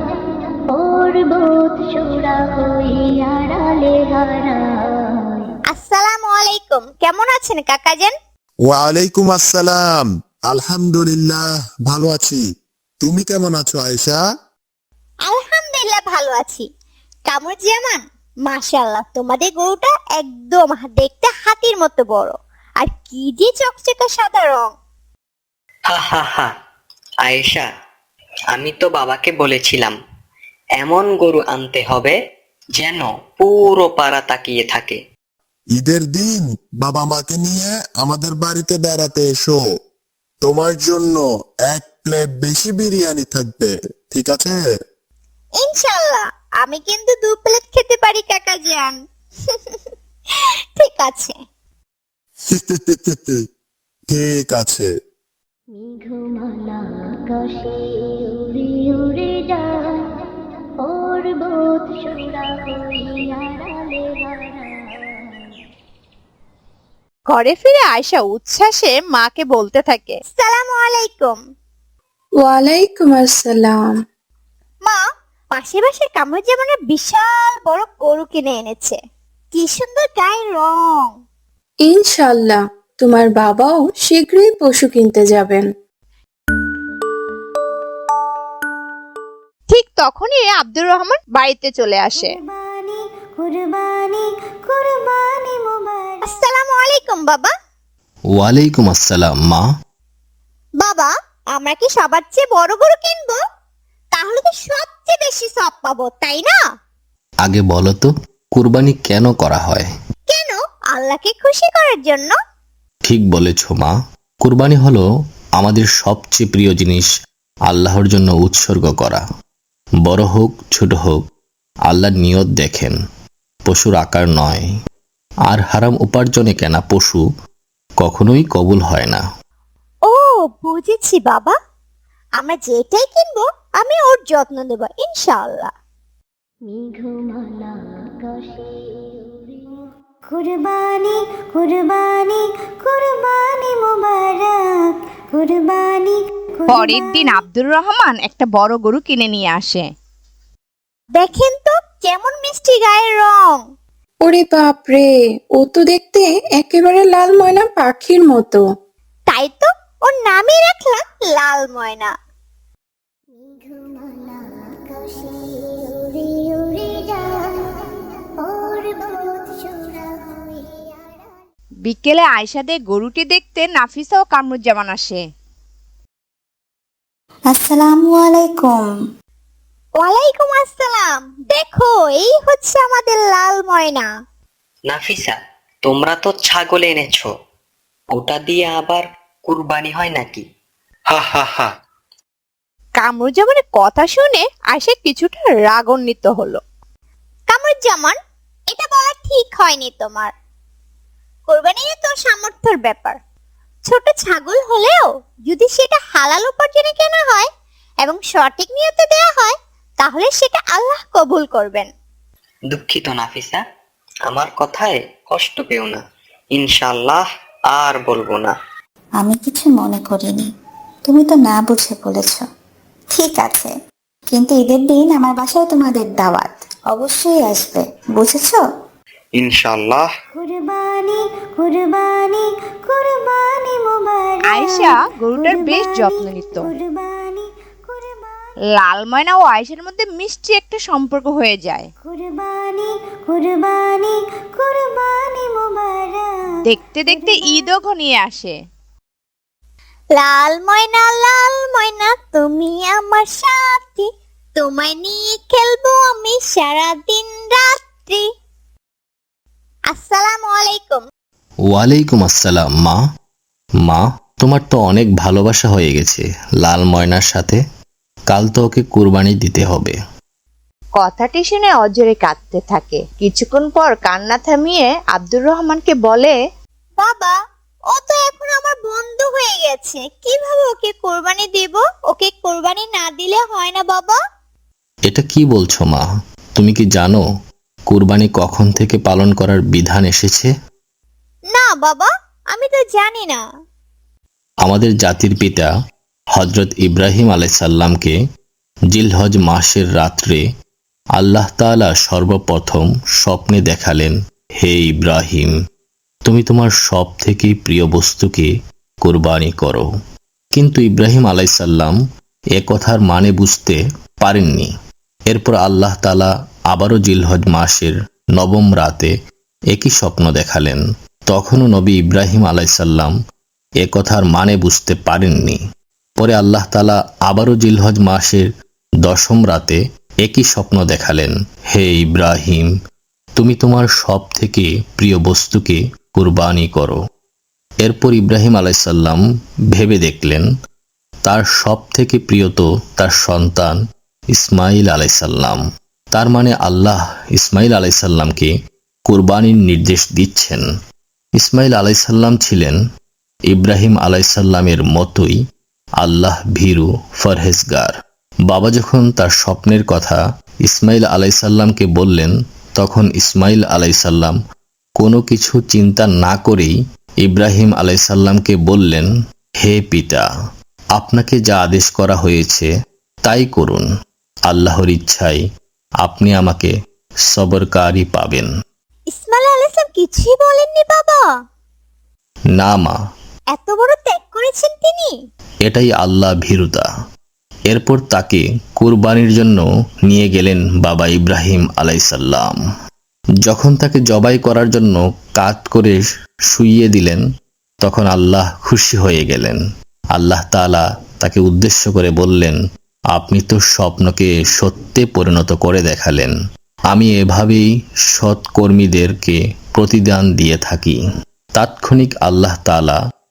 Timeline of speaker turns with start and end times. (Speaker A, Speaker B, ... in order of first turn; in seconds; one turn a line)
Speaker A: 0.8-4.5
Speaker B: 5.7-8.1
Speaker C: 8.7-12.4
Speaker C: 13.0-14.2
Speaker B: 15.3-16.7
Speaker B: 17.3-24.7
Speaker D: 25.9-26.5
Speaker D: 27.2-27.7
Speaker D: 28.5-30.0
Speaker D: 30.8-32.2
Speaker D: 32.8-35.0
Speaker C: 35.8-39.6
Speaker C: 40.4-44.6
Speaker B: 45.6-49.9
Speaker B: 50.8-51.4
Speaker C: 52.5-53.4
Speaker C: 54.1-54.9
Speaker A: 55.8-56.5
Speaker A: 61.0-62.4
Speaker E: 67.3-70.2
Speaker B: 70.3-71.4
Speaker F: 72.4-73.8
Speaker B: 75.5-79.0
Speaker B: 79.5-81.1
Speaker F: 81.8-85.7
Speaker E: 89.7-92.4
Speaker A: 92.1-96.3
Speaker B: 96.2-97.5
Speaker G: 98.3-99.6
Speaker B: 100.8-103.4
Speaker B: 104.2-106.6
Speaker G: 107.4-109.9
Speaker B: 110.3-112.3
Speaker G: 113.0-115.1
Speaker G: 115.6-117.1
Speaker G: 117.7-119.2
Speaker G: 120.0-121.2
Speaker G: 121.9-123.0
Speaker G: 123.7-124.7
Speaker G: 125.5-127.2
Speaker G: 128.0-129.2
Speaker B: 130.1-131.5
Speaker B: 132.4-135.7
Speaker A: 136.7-137.7
Speaker A: 138.3-138.6
Speaker A: 140.3-147.4
Speaker E: 146.7-149.9
Speaker B: 151.2-153.6
Speaker F: 154.2-158.6
Speaker B: 159.3-162.1
Speaker A: 163.4-167.8
Speaker A: 168.4-170.2
Speaker E: 171.8-175.2
Speaker H: 177.5-178.9
Speaker B: 180.0-184.1
Speaker D: 184.9-187.3
Speaker D: 188.1-190.5
Speaker D: 191.1-191.7
Speaker E: 193.0-196.6
Speaker B: 197.5-198.2
Speaker B: 198.7-200.3
Speaker B: 201.5-203.2
Speaker B: 203.9-207.5
Speaker B: 208.0-211.9
Speaker D: 212.7-213.6
Speaker D: 214.3-216.0
Speaker D: 216.5-218.6
Speaker H: 219.2-220.5
Speaker H: 221.1-222.5
Speaker H: 223.1-223.7
Speaker H: 224.3-228.6
Speaker D: 229.4-230.1
Speaker A: 230.3-238.5
Speaker E: 234.5-236.7
Speaker E: 238.8-241.9
Speaker A: 242.0-246.3
Speaker E: 246.7-248.6
Speaker A: 247.1-247.8
Speaker B: 250.2-258.2
Speaker B: 259.9-261.1
Speaker G: 261.7-263.0
Speaker G: 263.9-267.6
Speaker G: 268.3-270.0
Speaker E: 271.0-276.4
Speaker B: 277.0-277.3
Speaker B: 277.9-284.2
Speaker G: 285.1-286.0
Speaker G: 286.6-287.2
Speaker G: 287.9-290.5
Speaker B: 291.5-293.4
Speaker G: 294.6-295.7
Speaker G: 296.4-298.2
Speaker G: 298.9-300.4
Speaker G: 301.2-305.5
Speaker G: 306.3-308.5
Speaker G: 309.0-309.9
Speaker G: 310.5-312.0
Speaker G: 312.6-314.7
Speaker G: 315.3-319.1
Speaker G: 319.7-323.1
Speaker G: 323.8-325.6
Speaker G: 326.2-328.5
Speaker G: 329.0-332.7
Speaker G: 333.4-337.0
Speaker G: 337.8-339.2
Speaker G: 339.7-340.5
Speaker G: 341.3-343.8
Speaker G: 344.3-345.6
Speaker G: 346.1-348.5
Speaker G: 349.1-350.6
Speaker G: 351.4-352.8
Speaker G: 353.5-355.4
Speaker G: 356.0-357.9
Speaker G: 358.5-364.4
Speaker G: 365.0-369.1
Speaker G: 369.6-370.3
Speaker G: 371.0-372.7
Speaker G: 373.3-373.9
Speaker G: 374.5-375.4
Speaker G: 376.0-376.7
Speaker G: 377.3-378.5
Speaker B: 379.1-381.2
Speaker G: 382.6-383.0
Speaker B: 383.5-385.1
Speaker G: 385.7-386.9
Speaker G: 387.7-392.6
Speaker G: 393.4-396.0
Speaker G: 396.5-397.2
Speaker G: 397.8-399.6
Speaker G: 400.1-402.6
Speaker G: 403.1-406.4
Speaker G: 406.9-411.0
Speaker G: 411.6-413.0